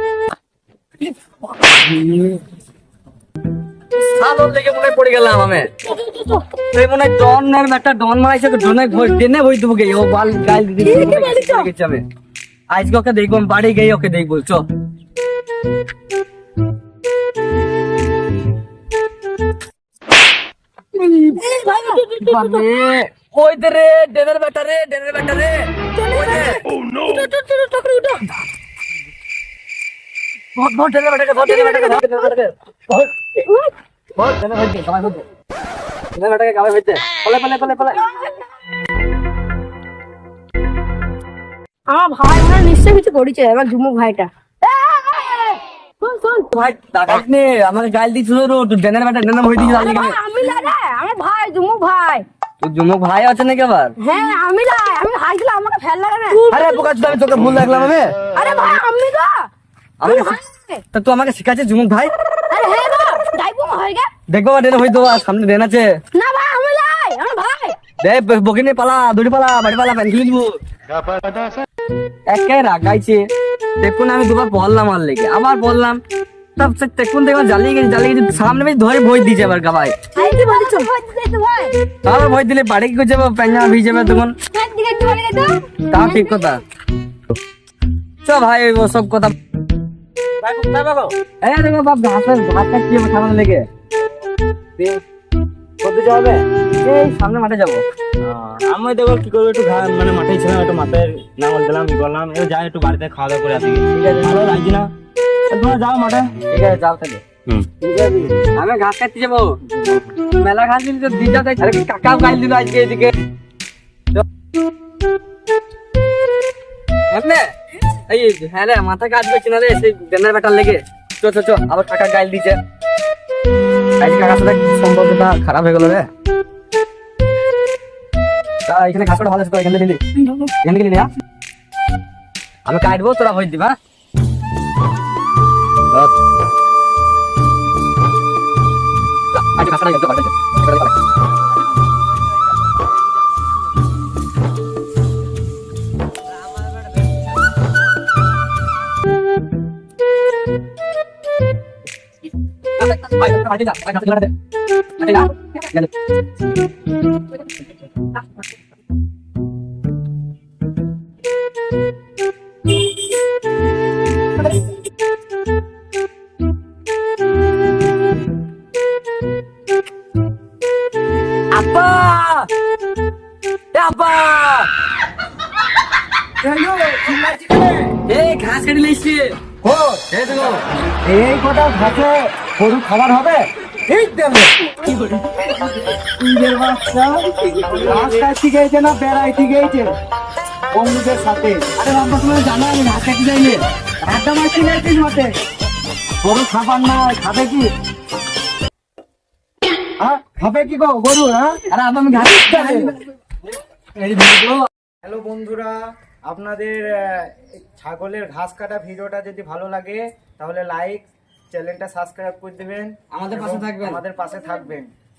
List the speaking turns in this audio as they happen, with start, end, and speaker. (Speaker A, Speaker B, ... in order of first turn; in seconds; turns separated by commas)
Speaker A: 1.5-2.4, Speaker A: 4.0-5.7, Speaker B: 5.9-6.4, Speaker A: 6.7-12.0, Speaker B: 10.8-11.7, Speaker A: 12.7-14.7, Speaker A: 21.0-21.4, Speaker B: 21.2-22.6, Speaker A: 21.9-26.6, Speaker B: 26.0-28.4, Speaker A: 30.6-33.3, Speaker B: 31.4-32.2, Speaker B: 33.5-33.7, Speaker A: 34.2-35.2, Speaker A: 36.1-38.0, Speaker B: 37.9-38.5, Speaker B: 41.9-46.5, Speaker A: 46.5-50.2, Speaker B: 49.7-52.2, Speaker A: 52.6-54.0, Speaker B: 54.0-56.8, Speaker A: 56.5-58.1, Speaker B: 58.3-59.5, Speaker A: 60.0-60.4, Speaker B: 60.0-60.8, Speaker A: 60.9-62.1, Speaker B: 62.5-64.1, Speaker A: 64.3-65.9, Speaker B: 66.1-67.8, Speaker A: 68.0-70.6, Speaker A: 72.3-73.2, Speaker A: 73.8-76.0, Speaker A: 76.6-80.0, Speaker B: 80.2-81.8, Speaker A: 82.0-84.3, Speaker B: 84.5-86.2, Speaker A: 85.9-86.6, Speaker A: 88.2-89.3, Speaker C: 90.4-91.1, Speaker A: 91.4-93.7, Speaker C: 95.8-96.4, Speaker A: 96.8-97.8, Speaker C: 98.2-104.9, Speaker A: 103.9-104.5, Speaker C: 105.5-106.3, Speaker A: 106.5-107.2, Speaker A: 107.8-113.2, Speaker A: 117.1-117.5, Speaker A: 118.1-122.6, Speaker A: 124.0-126.1, Speaker A: 128.7-131.1, Speaker A: 132.7-133.8, Speaker A: 139.3-140.9, Speaker A: 152.8-154.3, Speaker A: 155.0-155.9, Speaker A: 171.5-172.5, Speaker A: 173.7-174.7, Speaker C: 176.4-177.9, Speaker A: 178.1-179.4, Speaker C: 179.6-180.1, Speaker A: 180.1-180.6, Speaker C: 181.1-184.5, Speaker C: 185.4-185.8, Speaker A: 186.2-187.6, Speaker C: 187.6-189.9, Speaker C: 190.7-191.8, Speaker A: 191.8-193.6, Speaker C: 194.0-195.3, Speaker A: 196.3-196.5, Speaker C: 196.3-197.6, Speaker C: 200.0-201.6, Speaker A: 201.7-203.0, Speaker A: 204.0-204.7, Speaker C: 205.0-214.9, Speaker A: 213.1-214.0